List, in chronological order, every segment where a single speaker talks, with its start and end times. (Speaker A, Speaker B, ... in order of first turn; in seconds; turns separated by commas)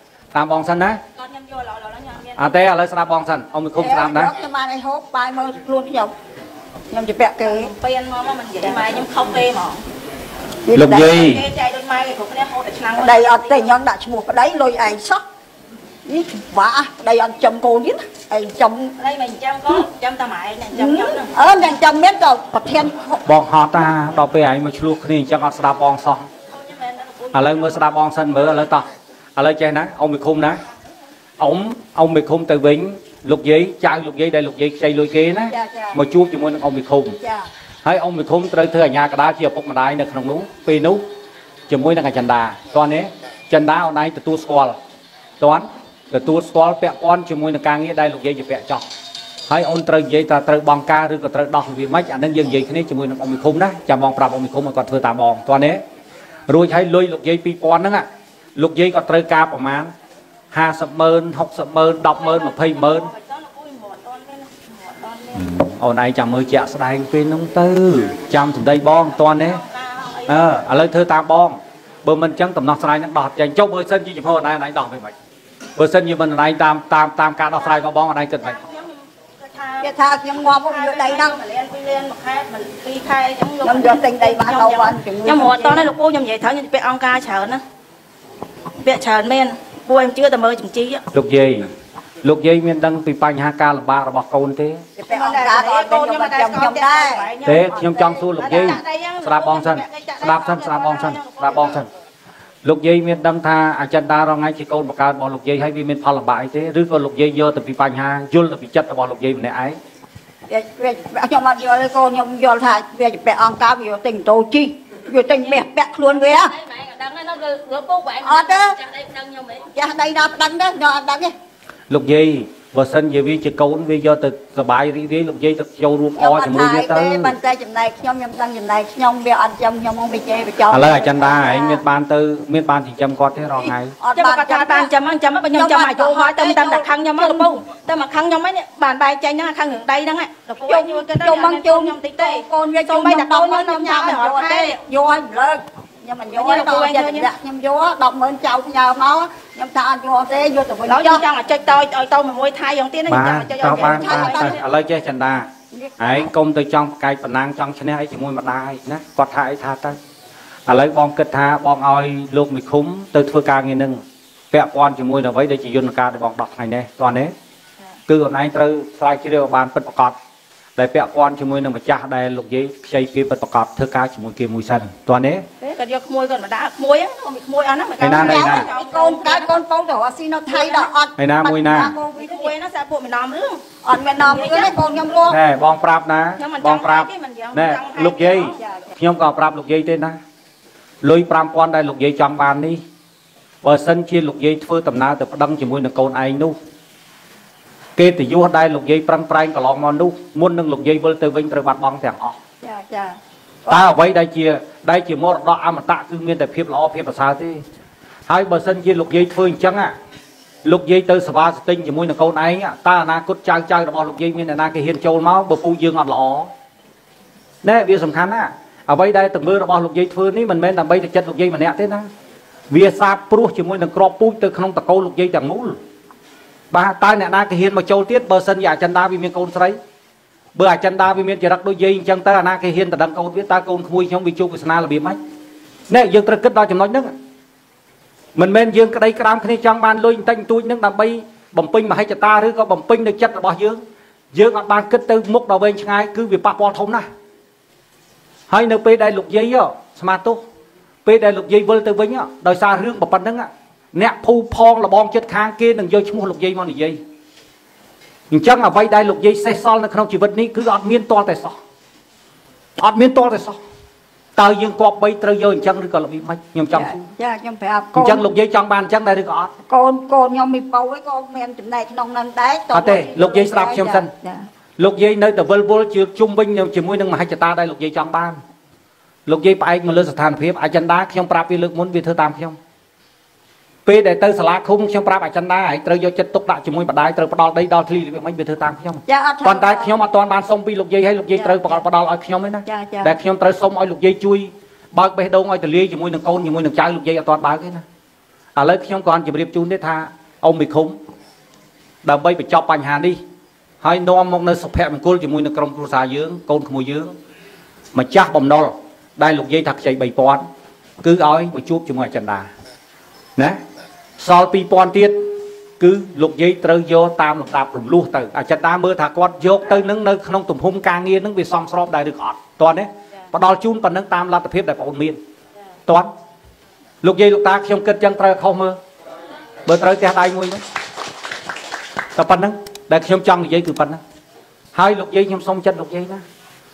Speaker A: 0.3-1.0, Speaker B: 1.2-2.6, Speaker A: 2.4-4.3, Speaker C: 3.8-6.1, Speaker C: 6.9-7.7, Speaker B: 7.6-9.8, Speaker C: 8.6-8.9, Speaker C: 10.7-11.2, Speaker A: 10.7-11.4, Speaker B: 11.0-13.7, Speaker C: 13.0-15.2, Speaker C: 16.1-18.9, Speaker B: 19.0-21.3, Speaker C: 20.7-23.2, Speaker A: 23.2-26.3, Speaker B: 26.5-27.8, Speaker A: 27.3-30.6, Speaker A: 31.4-37.2, Speaker C: 35.5-36.0, Speaker C: 37.2-37.5, Speaker A: 37.8-41.0, Speaker A: 41.7-44.8, Speaker A: 45.4-48.9, Speaker A: 49.5-55.8, Speaker A: 56.5-59.9, Speaker A: 60.5-63.1, Speaker B: 62.1-65.5, Speaker A: 65.3-69.6, Speaker B: 69.1-70.6, Speaker A: 70.3-75.1, Speaker A: 75.8-78.6, Speaker B: 78.4-79.9, Speaker C: 79.8-81.4, Speaker B: 80.5-87.6, Speaker C: 83.6-85.9, Speaker B: 88.8-91.0, Speaker A: 91.1-91.7, Speaker A: 92.2-94.8, Speaker C: 95.0-97.3, Speaker B: 95.1-101.8, Speaker A: 97.5-101.9, Speaker C: 97.9-98.2, Speaker A: 102.6-109.8, Speaker C: 110.5-116.6, Speaker B: 116.2-119.7, Speaker C: 118.2-118.8, Speaker C: 119.7-121.3, Speaker A: 121.9-127.3, Speaker C: 126.2-131.8, Speaker A: 130.7-133.9, Speaker C: 134.0-134.9, Speaker B: 134.2-144.8, Speaker C: 135.5-137.5, Speaker C: 140.7-151.3, Speaker B: 146.3-147.3, Speaker B: 150.9-154.6, Speaker A: 153.1-160.0, Speaker C: 153.6-154.6, Speaker C: 155.7-156.3, Speaker A: 160.7-167.3, Speaker A: 168.1-170.2, Speaker A: 170.8-175.5, Speaker B: 175.6-179.6, Speaker A: 178.0-178.7, Speaker C: 178.1-182.5, Speaker B: 180.5-180.9, Speaker A: 181.2-181.9, Speaker B: 182.2-183.6, Speaker C: 183.8-185.4, Speaker B: 184.2-184.7, Speaker A: 185.3-190.2, Speaker B: 186.4-188.6, Speaker A: 191.0-192.8, Speaker A: 193.6-196.6, Speaker A: 198.0-202.4, Speaker C: 202.6-203.9, Speaker A: 203.7-207.6, Speaker A: 208.3-209.9, Speaker A: 210.7-216.5, Speaker A: 217.6-222.1, Speaker A: 222.7-225.8, Speaker A: 226.7-229.8, Speaker A: 230.6-235.2, Speaker A: 235.9-237.1, Speaker A: 238.4-243.8, Speaker A: 244.3-247.1, Speaker A: 248.5-250.4, Speaker A: 251.1-257.0, Speaker A: 258.3-261.6, Speaker A: 262.8-263.6, Speaker A: 264.4-267.1, Speaker C: 266.7-268.3, Speaker A: 267.9-269.5, Speaker C: 269.7-274.5, Speaker A: 272.7-274.1, Speaker A: 274.8-278.4, Speaker A: 279.3-282.6, Speaker A: 283.9-297.8, Speaker C: 289.1-289.9, Speaker C: 291.4-291.8, Speaker C: 292.7-293.1, Speaker A: 298.6-301.0, Speaker A: 302.0-303.2, Speaker A: 303.8-307.1, Speaker A: 307.9-310.4, Speaker A: 311.0-312.5, Speaker A: 314.2-325.2, Speaker A: 327.0-328.8, Speaker A: 329.7-330.6, Speaker A: 332.2-334.0, Speaker A: 334.7-336.2